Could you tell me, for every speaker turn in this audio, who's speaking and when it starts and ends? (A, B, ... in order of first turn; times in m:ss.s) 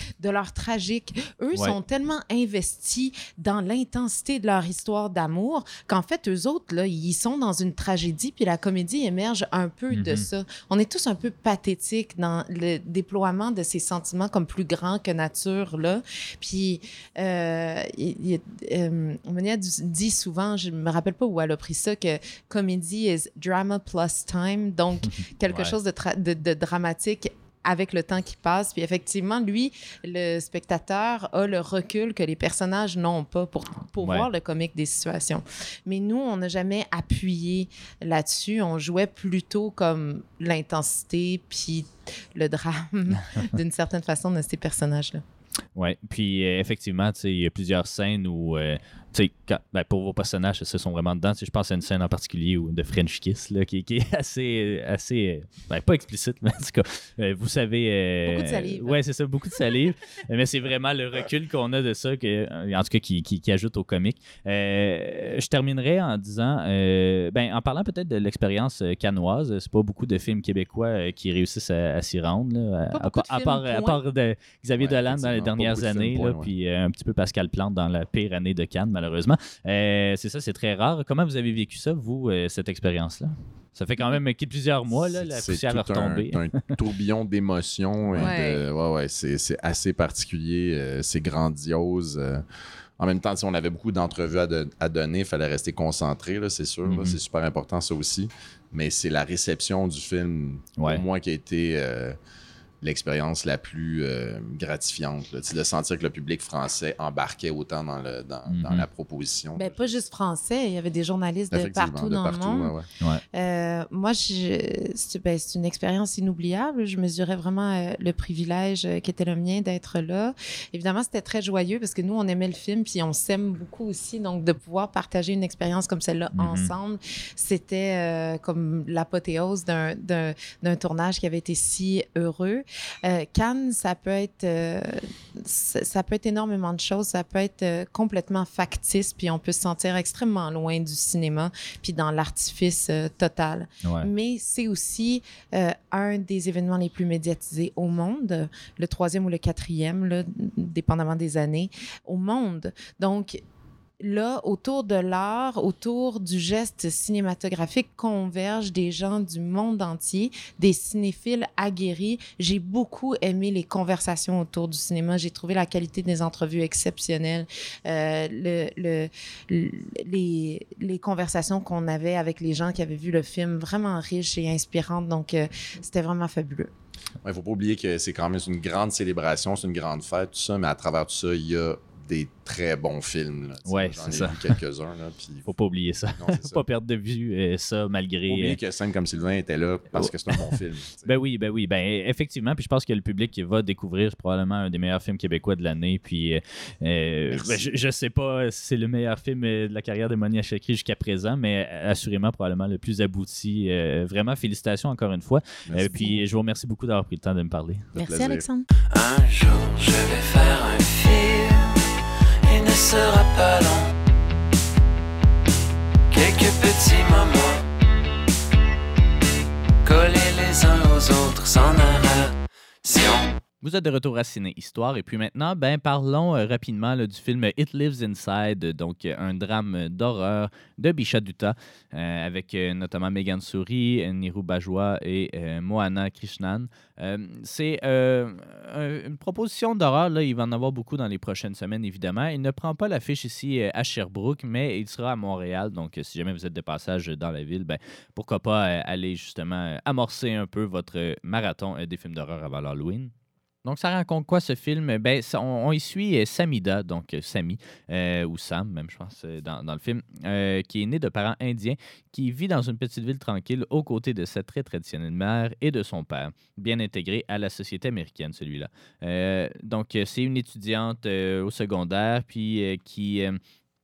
0:00.2-0:45.2 A
0:09.9-0:10.3 B
0:25.4-0:25.7 B
0:34.0-0:34.3 B
0:45.8-1:26.8 B
0:58.2-0:59.0 A
1:12.9-1:14.0 A
1:14.8-1:16.5 C
1:24.9-1:32.4 C
1:28.1-1:28.6 A
1:33.0-1:42.2 C
1:36.8-1:37.2 B
1:40.8-1:41.0 B
1:42.8-1:49.8 C
1:48.5-1:48.8 B
1:49.5-1:52.7 A
1:51.5-1:52.9 C
1:53.3-2:33.4 A
2:06.3-2:06.7 B
2:23.8-2:24.1 B
2:34.0-2:56.7 A
2:57.2-3:05.5 C
3:03.6-3:04.6 B
3:05.5-3:08.6 B
3:06.1-3:06.6 C
3:08.3-3:11.1 C
3:10.0-3:27.9 B
3:17.3-3:17.7 C
3:25.7-3:26.0 C
3:25.8-3:26.2 A
3:27.9-3:28.4 C
3:28.0-3:28.6 A
3:28.9-3:31.8 D
3:32.4-3:33.9 D
3:36.1-3:37.6 D
3:39.8-3:43.4 D
3:43.6-4:13.1 B
4:13.6-4:33.4 B